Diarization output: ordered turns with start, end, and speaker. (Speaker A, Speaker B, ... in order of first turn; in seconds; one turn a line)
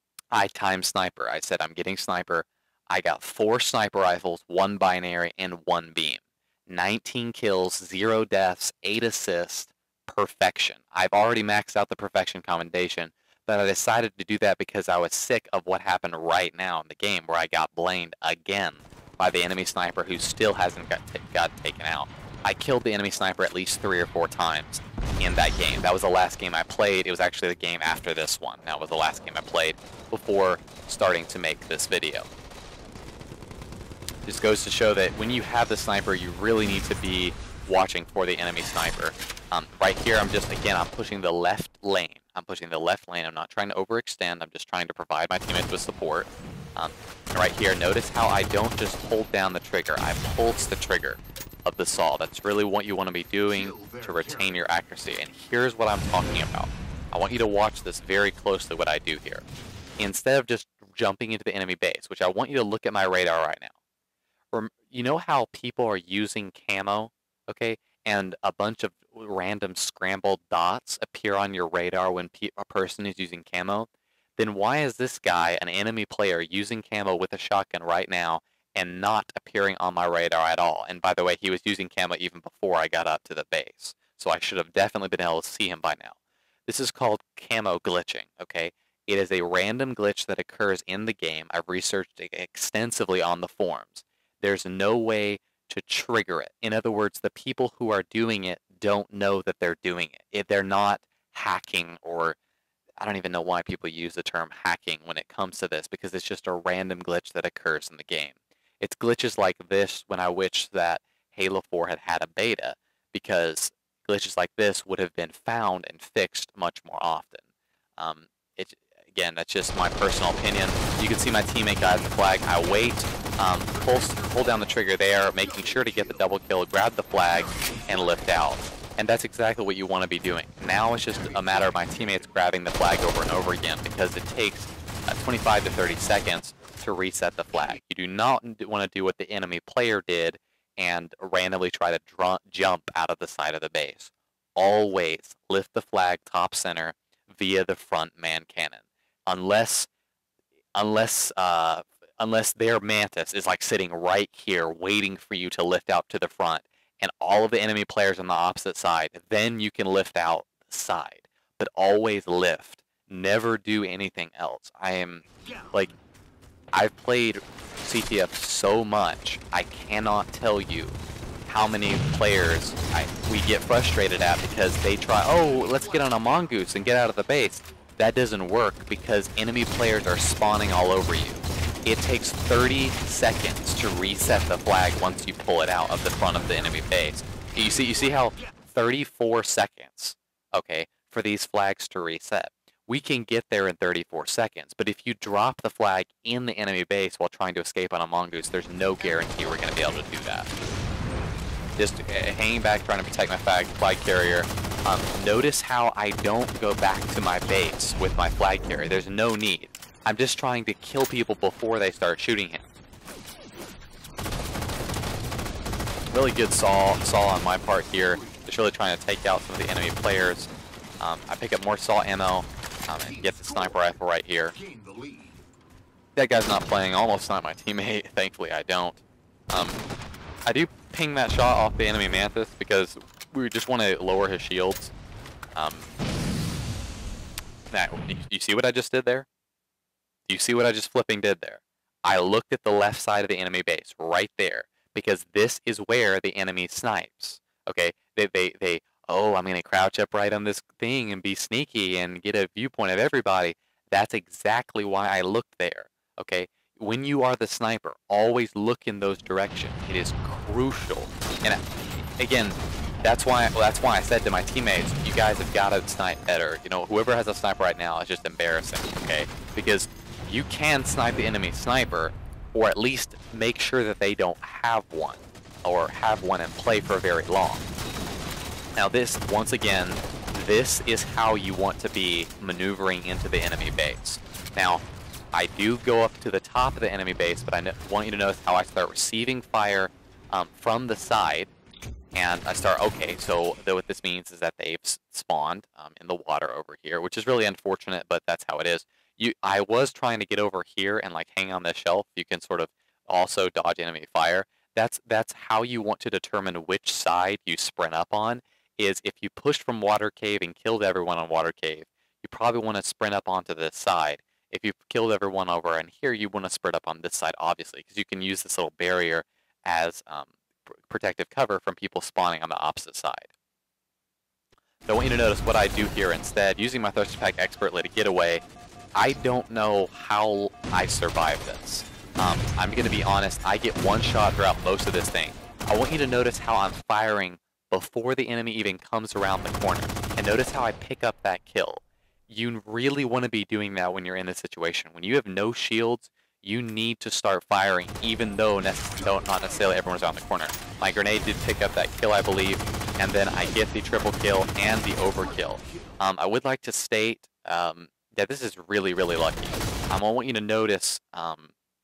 Speaker A: 0.3-32.3
Speaker A: 34.2-59.5
Speaker A: 60.0-63.7
Speaker A: 64.5-102.4
Speaker A: 103.0-117.4
Speaker A: 118.0-149.9
Speaker A: 150.8-165.9
Speaker A: 166.7-200.5
Speaker A: 201.8-212.7
Speaker A: 216.1-224.6
Speaker A: 226.2-229.8
Speaker A: 230.5-234.9
Speaker A: 235.6-235.9
Speaker A: 237.7-239.3
Speaker A: 240.3-261.6
Speaker A: 262.2-277.6
Speaker A: 278.8-291.5
Speaker A: 292.1-323.3
Speaker A: 324.9-328.4
Speaker A: 328.9-361.5